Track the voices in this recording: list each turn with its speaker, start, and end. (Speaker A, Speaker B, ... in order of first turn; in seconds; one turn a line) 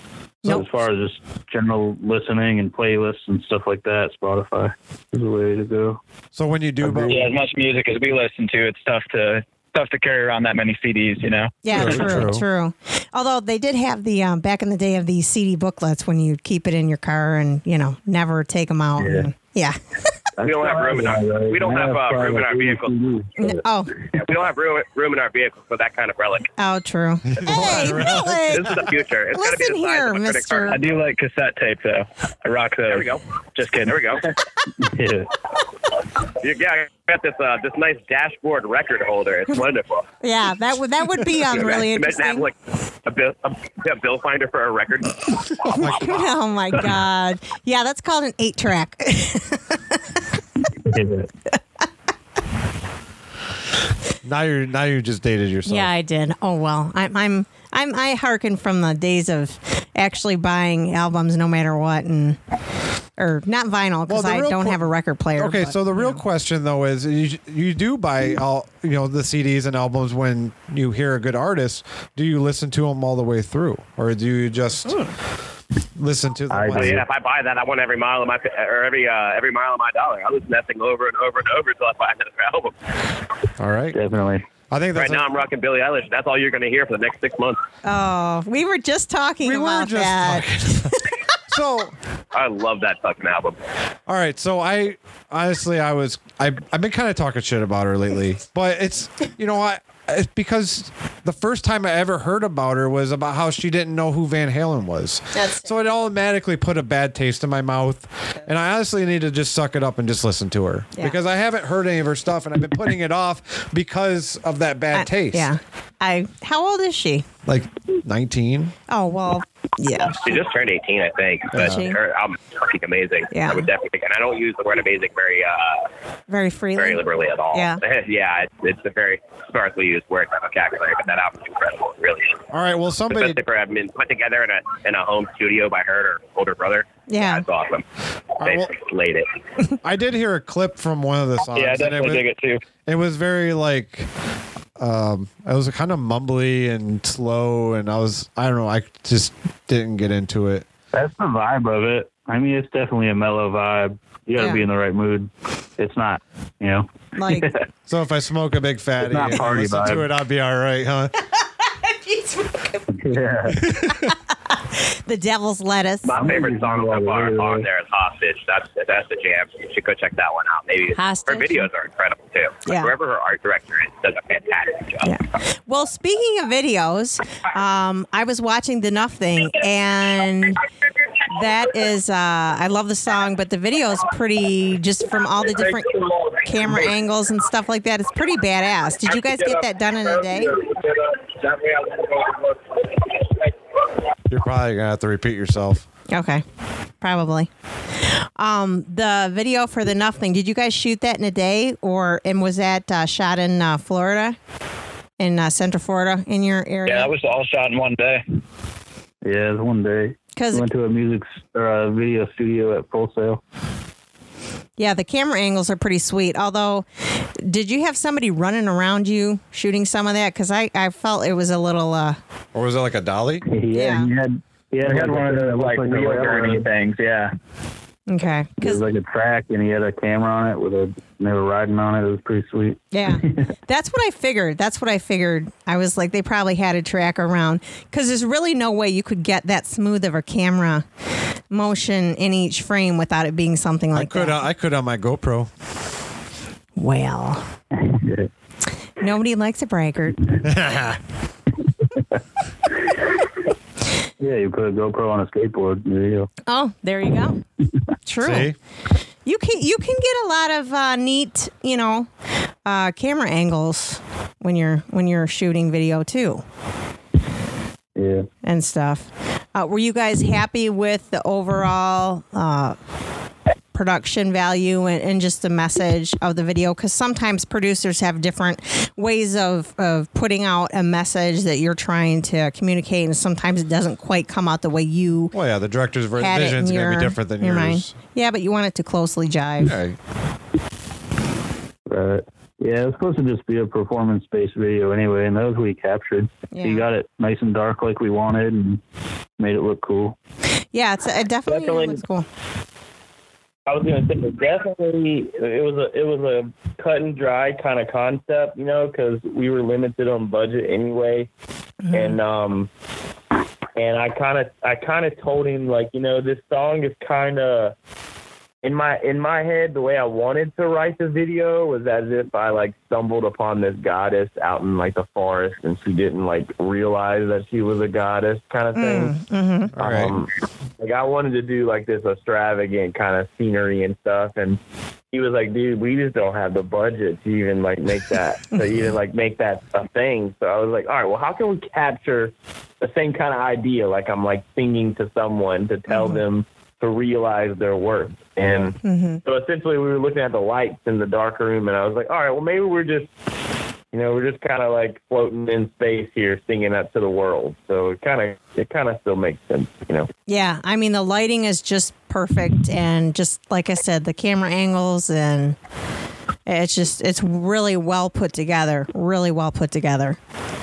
Speaker A: 0.4-6.0
Speaker B: 6.3-7.2
Speaker A: 6.8-7.2
Speaker C: 7.0-12.1
Speaker D: 11.6-19.8
Speaker B: 11.7-12.5
Speaker A: 19.0-19.3
Speaker A: 20.4-23.6
Speaker E: 20.4-22.9
Speaker D: 23.4-23.9
Speaker E: 24.1-26.5
Speaker D: 26.6-28.8
Speaker B: 27.3-28.8
Speaker E: 28.5-30.9
Speaker D: 29.3-30.8
Speaker C: 30.7-34.2
Speaker E: 32.9-33.2
Speaker E: 33.8-34.3
Speaker A: 34.8-35.3
Speaker E: 36.4-40.1
Speaker D: 40.2-42.5
Speaker E: 41.5-42.5
Speaker E: 43.0-45.5
Speaker D: 45.6-50.0
Speaker B: 45.7-46.3
Speaker A: 50.8-51.3
Speaker B: 54.2-55.9
Speaker D: 55.7-62.4
Speaker D: 63.2-66.2
Speaker B: 64.1-64.8
Speaker B: 65.4-75.0
Speaker B: 76.0-77.0
Speaker A: 76.5-77.0
Speaker E: 76.7-82.8
Speaker B: 83.6-84.0
Speaker A: 83.9-84.5
Speaker B: 84.7-85.3
Speaker E: 85.0-87.6
Speaker D: 87.8-90.9
Speaker B: 89.4-92.0
Speaker E: 92.3-93.6
Speaker B: 94.1-115.5
Speaker D: 105.4-105.7
Speaker D: 114.9-117.3
Speaker B: 117.5-118.8
Speaker D: 118.9-120.4
Speaker E: 120.2-125.9
Speaker B: 121.5-121.8
Speaker D: 121.6-122.0
Speaker D: 123.3-123.7
Speaker D: 126.3-127.8
Speaker E: 126.8-132.4
Speaker B: 132.5-133.4
Speaker E: 133.1-137.8
Speaker D: 137.1-137.4
Speaker E: 138.4-139.3
Speaker B: 138.4-138.7
Speaker B: 139.8-142.2
Speaker C: 141.5-142.6
Speaker B: 142.9-144.1
Speaker B: 144.8-150.7
Speaker A: 150.9-157.6
Speaker D: 154.4-154.6
Speaker D: 157.2-157.5
Speaker B: 157.9-161.1
Speaker A: 159.0-160.1
Speaker D: 161.8-162.8
Speaker A: 162.9-163.7
Speaker B: 163.7-164.1
Speaker D: 164.7-166.2
Speaker E: 166.1-175.1
Speaker A: 166.1-167.7
Speaker D: 171.0-171.7
Speaker D: 172.7-172.9
Speaker D: 175.0-180.6
Speaker D: 181.3-190.6
Speaker B: 194.3-195.9
Speaker D: 196.1-196.4
Speaker D: 197.0-197.5
Speaker D: 198.1-204.4
Speaker D: 205.2-207.1
Speaker C: 206.9-208.2
Speaker A: 209.2-213.4
Speaker D: 210.4-210.7
Speaker D: 214.8-216.9
Speaker D: 217.4-222.2
Speaker B: 222.5-223.5
Speaker A: 223.4-226.6
Speaker D: 223.7-224.1
Speaker C: 224.8-227.3
Speaker D: 228.1-228.8
Speaker A: 228.6-233.5
Speaker D: 232.9-240.8
Speaker D: 241.5-244.4
Speaker B: 243.9-245.5
Speaker D: 246.8-247.5
Speaker A: 247.7-248.3
Speaker D: 249.0-250.3
Speaker B: 250.4-251.0
Speaker A: 254.2-256.3
Speaker D: 256.5-257.4
Speaker D: 258.1-258.5
Speaker B: 258.2-258.6
Speaker D: 259.3-262.1
Speaker D: 262.6-266.4
Speaker A: 268.0-268.3
Speaker D: 268.4-272.8
Speaker D: 273.7-285.3
Speaker B: 285.3-287.9
Speaker D: 286.2-289.8
Speaker B: 289.6-290.0
Speaker A: 291.9-298.8
Speaker D: 296.5-296.9
Speaker A: 299.4-300.2
Speaker D: 300.7-302.3
Speaker F: 301.5-302.0
Speaker F: 303.7-311.3
Speaker D: 311.8-312.2
Speaker F: 311.9-312.7
Speaker F: 313.8-317.8
Speaker F: 318.6-329.2
Speaker D: 328.8-329.7
Speaker B: 329.8-330.2
Speaker F: 329.8-334.6
Speaker F: 335.1-353.1
Speaker D: 345.9-346.2
Speaker D: 348.8-349.2
Speaker F: 353.9-360.1
Speaker D: 360.3-365.6
Speaker D: 366.5-370.2